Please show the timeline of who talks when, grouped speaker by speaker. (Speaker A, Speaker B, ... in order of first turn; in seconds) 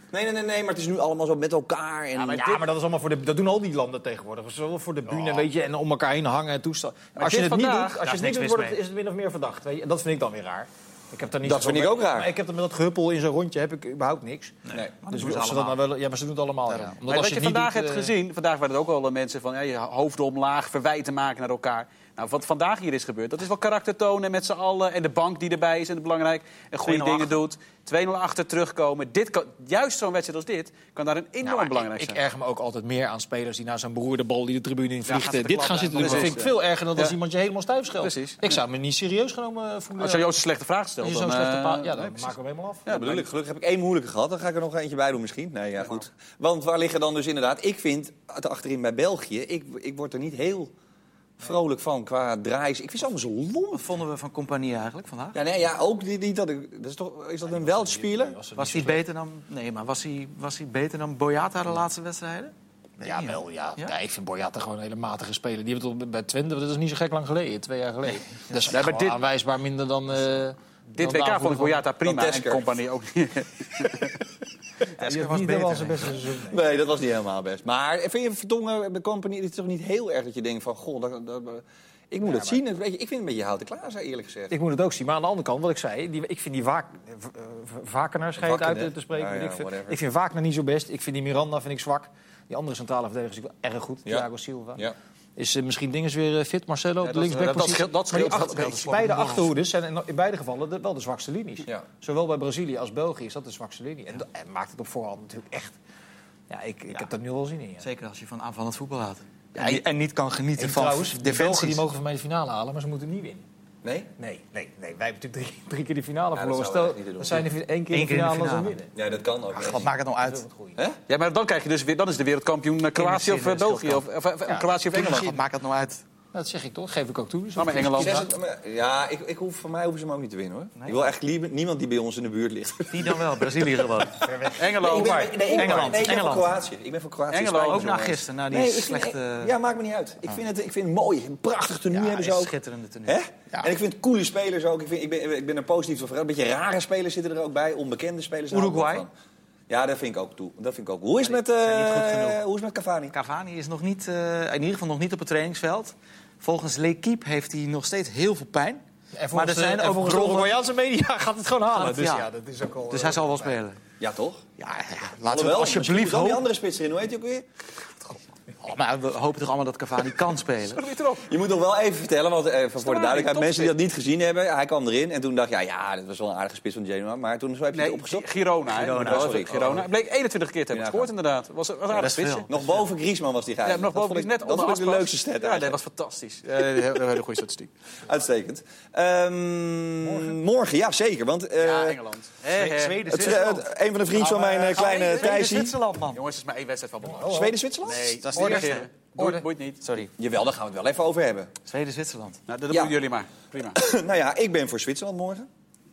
Speaker A: 0.1-2.6, 11.4-12.3, 42.9-50.7, 51.4-53.8, 55.3-58.4, 72.0-72.6, 76.5-84.5, 88.4-90.0, 94.0-94.9, 113.8-114.1, 116.3-117.5, 118.9-119.9, 127.9-133.9, 134.6-142.5, 143.1-149.1, 149.7-153.1, 164.0-164.4, 165.2-167.4, 171.2-178.3, 178.8-179.8, 180.7-181.1, 181.9-185.8, 188.0-192.0, 193.1-195.8, 197.2-198.1, 200.2-201.5, 202.7-202.9, 203.7-205.5
Speaker B: 2.1-2.7, 7.2-8.0, 17.1-32.2, 35.1-37.1, 38.0-38.5, 40.0-42.3, 42.9-43.2, 68.7-69.2, 70.9-74.2, 97.0-99.0, 121.1-125.4, 127.5-128.2, 134.5-135.9, 137.3-137.9, 170.7-171.3, 172.8-173.8, 177.7-182.5, 183.6-187.7, 191.6-193.4, 196.1-199.8, 202.5-203.8
Speaker C: 2.4-14.6, 15.1-18.1, 26.8-27.4, 31.4-40.3, 41.0-43.2, 57.5-59.0, 63.0-71.8, 75.0-76.6, 82.2-82.6, 84.5-94.8, 95.4-105.8, 106.5-107.8, 109.5-109.8, 110.6-113.4, 114.2-118.9, 120.2-120.8, 126.3-128.3, 134.2-136.1, 159.1-163.6, 190.0-190.4, 197.0-197.5, 198.3-199.4
Speaker D: 8.0-8.8, 14.7-15.8, 35.9-36.4, 53.7-55.4, 58.5-63.9, 75.0-76.2, 98.1-99.5, 107.8-111.8, 117.9-118.8, 119.5-120.4, 122.9-124.0, 124.9-126.0, 130.8-131.1, 132.9-134.3, 134.9-136.6, 137.5-139.5, 141.9-143.7, 148.5-149.0, 151.2-152.4, 153.1-158.8, 159.3-160.6, 161.7-162.3, 162.9-163.8, 164.6-166.4, 168.6-170.8, 178.7-179.9, 181.9-182.8, 192.4-196.2, 197.9-198.9, 199.8-200.1, 201.7-202.4